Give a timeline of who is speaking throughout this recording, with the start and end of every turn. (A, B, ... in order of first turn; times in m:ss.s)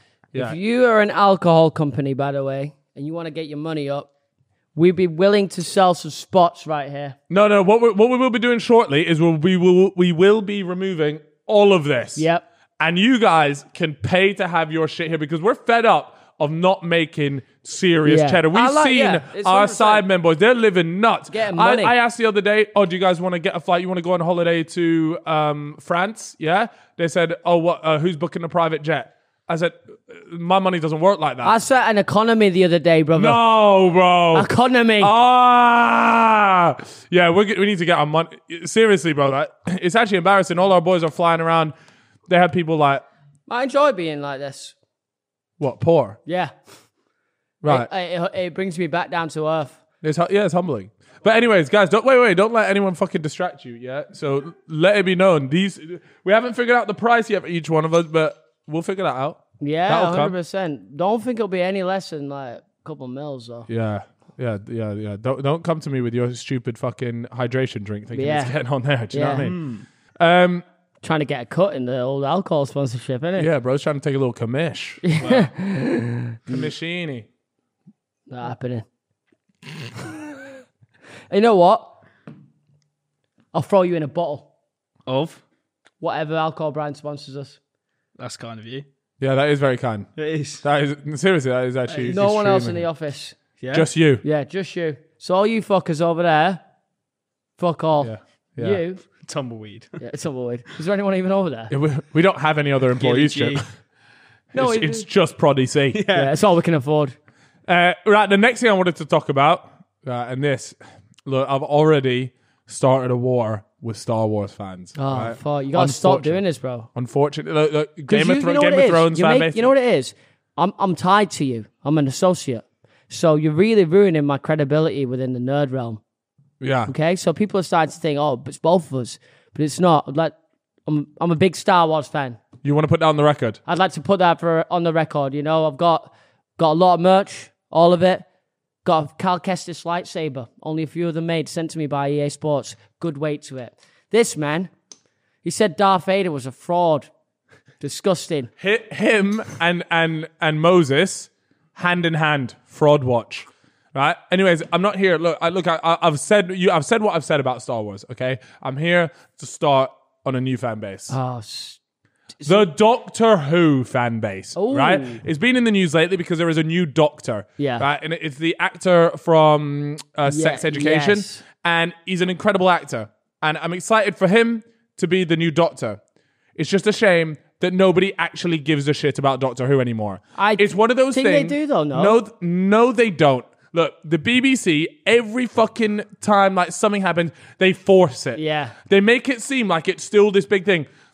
0:00.3-0:04.1 A
0:04.7-0:07.2 A
0:07.3-0:12.3 B
0:12.2-0:12.4 A
0:12.8-0:31.6 B
0:18.0-0:20.0 A
0:21.3-0:21.9 A
0:31.4-0:33.4 A
0:33.1-0:34.5 B
0:34.3-0:35.1 A
0:35.0-0:41.7 B
0:42.3-0:43.0 B
0:43.5-0:44.7 A
0:45.6-0:46.2 B
0:46.2-0:46.5 A
0:47.6-0:47.9 B
0:47.6-0:49.8 A
0:50.0-1:00.3 B
0:59.6-1:03.7 A
1:03.7-1:09.6 B
1:08.1-1:08.5 A
1:09.1-1:09.5 A
1:09.4-1:09.8 C
1:10.2-1:10.6 B
1:11.0-1:13.5 A
1:13.4-1:15.4 B
1:15.0-1:16.7 A
1:15.2-1:15.5 C
1:16.5-1:17.3 B
1:18.3-1:18.8 A
1:20.0-1:20.4 A
1:21.3-1:22.0 A
1:23.5-1:24.5 A
1:25.0-1:25.4 C
1:26.0-1:27.6 A
1:28.2-1:28.8 C
1:29.2-1:30.1 B
1:30.2-1:30.6 C
1:30.6-1:32.8 B
1:32.0-1:33.4 A
1:33.6-1:33.9 C
1:33.7-1:34.2 B
1:34.2-1:36.6 A
1:37.6-1:39.0 A
1:38.0-1:38.8 B
1:39.1-1:40.0 C
1:40.0-1:41.7 A
1:41.7-1:43.6 B
1:43.0-1:43.6 C
1:44.5-1:46.0 B
1:44.5-1:45.0 A
1:45.9-1:46.4 C
1:46.1-1:47.2 A
1:47.7-1:56.4 B
1:55.0-1:56.9 A
1:56.9-1:59.7 B
1:58.1-2:06.0 A
2:06.6-2:06.9 B
2:06.9-2:10.3 A
2:10.8-2:12.4 A
2:12.6-2:13.6 B
2:13.6-2:18.2 A
2:18.8-2:24.7 A
2:25.4-2:27.1 A
2:27.8-2:28.5 A
2:28.6-2:41.2 B
2:41.1-2:41.8 A
2:42.4-2:42.7 A
2:42.4-2:56.0 B
2:44.6-2:45.2 A
2:47.6-2:47.8 A
2:50.3-2:51.4 A
2:56.6-3:10.9 B
3:00.4-3:02.2 A
3:08.4-3:08.8 A